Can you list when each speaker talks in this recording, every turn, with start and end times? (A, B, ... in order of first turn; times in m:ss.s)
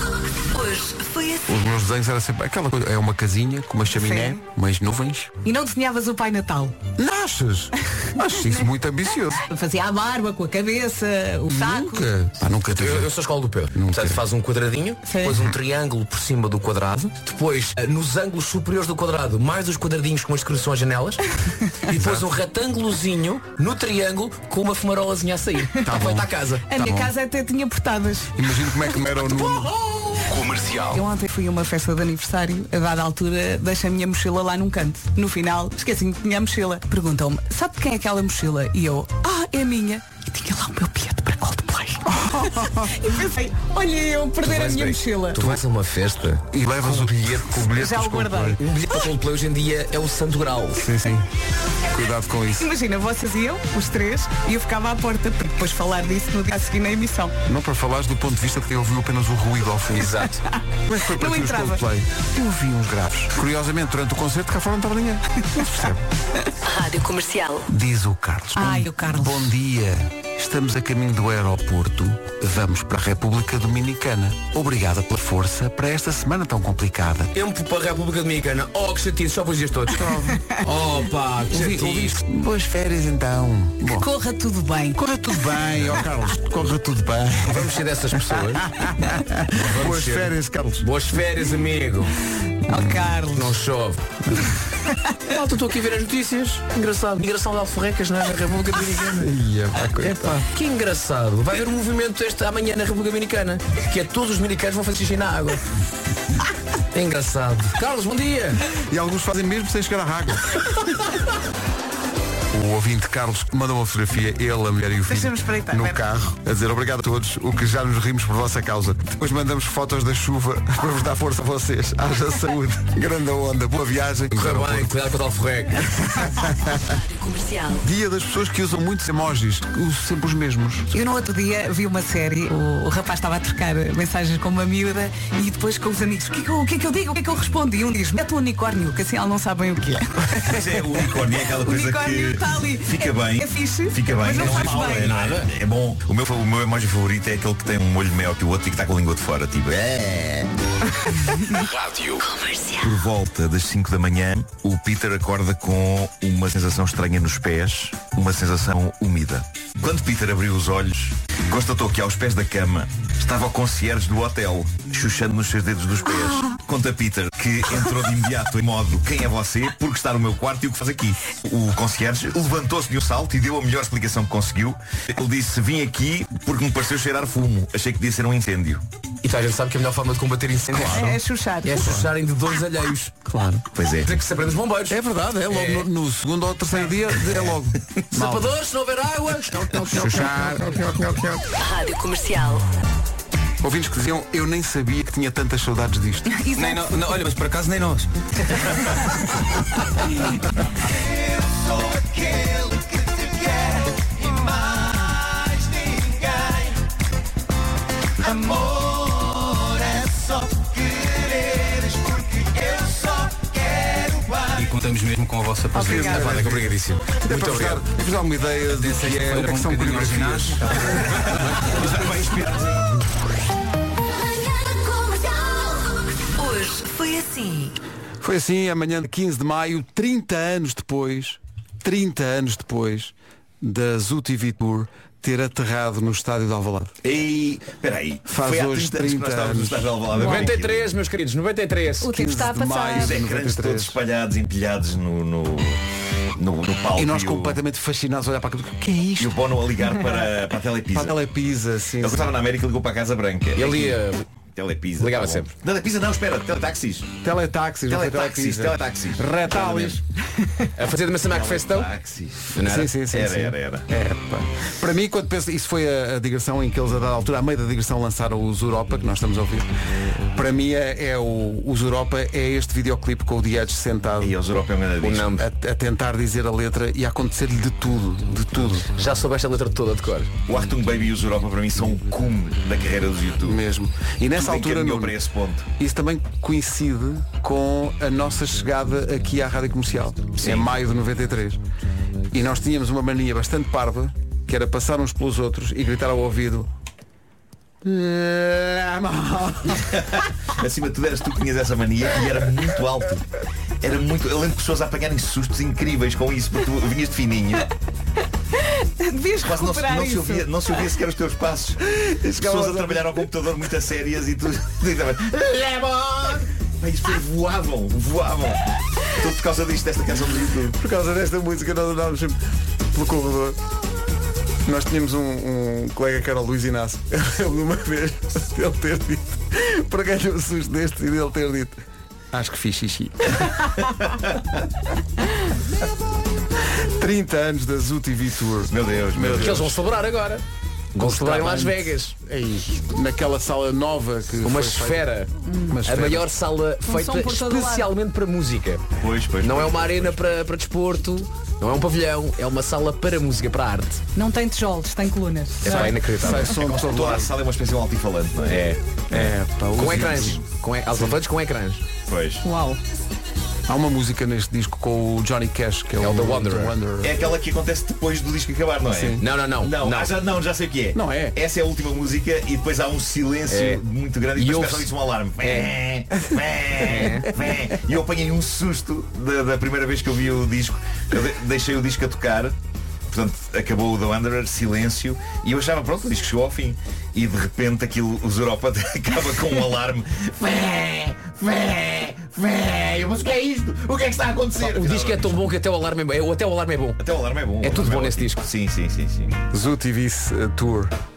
0:00.6-0:01.3 A
0:01.4-0:05.3 B
0:03.9-0:04.4 A
0:05.4-0:06.8 A
0:07.0-0:09.4 B
0:08.4-0:08.7 A
0:09.3-0:12.1 A
0:11.5-0:13.1 B
0:12.8-0:21.2 C
0:13.7-0:14.2 B
0:15.0-0:15.4 A
0:15.3-0:15.6 B
0:21.8-0:26.8 C
0:21.9-0:22.3 B
0:25.8-0:27.1 B
0:26.7-0:29.4 A
0:28.3-0:29.7 B
0:29.3-0:30.4 C
0:30.3-0:31.0 D
0:30.9-0:45.4 A
0:42.1-0:43.0 B
0:44.4-0:47.7 C
0:46.5-0:48.6 B
0:47.7-0:48.6 A
0:48.6-0:50.9 C
0:50.8-0:51.3 B
0:51.9-0:52.7 B
0:52.6-0:57.4 A
0:57.5-1:00.2 B
0:59.9-1:00.4 C
1:00.9-1:06.0 B
1:01.1-1:01.8 A
1:06.7-1:07.6 E
1:07.7-1:17.3 B
1:08.6-1:09.5 A
1:17.3-1:22.2 C
1:19.9-1:20.5 B
1:21.5-1:24.1 B
1:23.9-1:25.9 A
1:25.0-1:30.9 B
1:27.4-1:28.7 C
1:29.5-1:32.2 C
1:32.6-1:33.6 A
1:32.7-1:33.2 B
1:33.3-1:34.2 C
1:34.7-1:35.2 A
1:35.3-1:45.6 C
1:39.0-1:40.5 B
1:46.9-1:48.6 C
1:48.7-1:50.6 B
1:52.5-2:04.9 B
1:55.0-1:56.0 A
2:04.3-2:06.3 C
2:06.2-2:07.0 B
2:07.1-2:07.8 E
2:07.8-2:10.9 B
2:10.9-2:25.2 A
2:20.4-2:30.5 F
2:24.2-2:25.5 C
2:31.2-2:31.7 A
2:31.7-2:32.4 D
2:32.7-2:58.8 F
2:59.2-3:03.2 C
3:00.7-3:01.2 B
3:00.8-3:01.9 A
3:01.8-3:02.1 B
3:03.3-3:03.6 B
3:03.8-3:04.1 F
3:04.0-3:05.9 C
3:04.9-3:08.5 B
3:06.8-3:10.8 C
3:09.8-3:11.4 B
3:11.6-3:12.6 E
3:13.6-3:16.3 B
3:16.3-3:17.2 A
3:16.6-3:18.6 D
3:20.8-3:26.8 F
3:28.2-3:34.7 F
3:34.6-3:36.3 D
3:35.7-3:36.3 A
3:35.7-3:42.0 B
3:35.8-3:37.8 C
3:36.3-3:36.7 F
3:38.7-3:40.8 D
3:41.0-3:43.0 F
3:44.7-3:45.6 E
3:46.4-3:47.7 E
3:48.2-3:57.0 B
3:57.0-4:00.9 F
3:58.3-3:59.9 B
4:00.1-4:02.1 C
4:02.0-4:03.2 A
4:02.1-4:04.0 B
4:03.0-4:05.8 F
4:06.4-4:07.6 F
4:07.0-4:09.5 B
4:09.2-4:11.2 F
4:10.9-4:12.3 B
4:12.0-4:17.1 F
4:13.5-4:14.3 C
4:15.0-4:15.5 C
4:17.2-4:20.0 B
4:17.9-4:20.0 F
4:20.8-4:21.9 C
4:21.2-4:22.6 F
4:22.5-4:23.1 C
4:22.6-4:29.7 B
4:23.1-4:23.9 F
4:30.3-4:34.4 B
4:34.2-4:35.3 F
4:35.0-4:35.5 C
4:35.4-4:38.9 B
4:38.8-4:40.3 C
4:40.4-4:43.6 F
4:43.4-4:45.2 B
4:44.3-4:45.7 F
4:45.8-4:51.6 B
4:50.4-4:50.8 F
4:52.3-4:56.7 B
4:57.8-4:59.9 B
4:59.9-5:03.2 F
5:03.8-5:07.7 F
5:08.6-5:10.5 A
5:09.4-5:20.8 F
5:12.2-5:13.3 B
5:20.7-5:22.4 B
5:22.9-5:23.6 B
5:24.6-5:31.8 B
5:32.3-5:33.5 B
5:36.7-5:39.8 B
5:38.7-5:39.8 F
5:39.3-5:42.2 C
5:40.9-5:45.1 B
5:44.4-5:45.3 C
5:45.5-5:45.8 A
5:45.7-5:46.3 B
5:45.8-5:48.9 C
5:46.8-5:47.9 A
5:49.0-5:50.4 F
5:49.4-5:54.0 C
5:54.2-5:56.0 A
5:55.6-5:56.6 C
5:55.6-6:00.4 F
5:56.0-5:57.3 B
5:58.5-6:01.8 C
5:59.1-6:00.4 B
6:02.1-6:02.4 F
6:02.4-6:02.8 A
6:03.7-6:07.1 B
6:06.0-6:06.8 C
6:07.0-6:22.6 F
6:08.9-6:09.2 B
6:09.2-6:10.2 C
6:10.9-6:11.4 B
6:13.5-6:13.8 C
6:14.3-6:15.8 C
6:16.8-6:17.4 C
6:23.1-6:35.4 F
6:34.6-6:37.0 C
6:37.0-6:39.4 F
6:37.6-6:38.4 C
6:39.5-6:40.9 B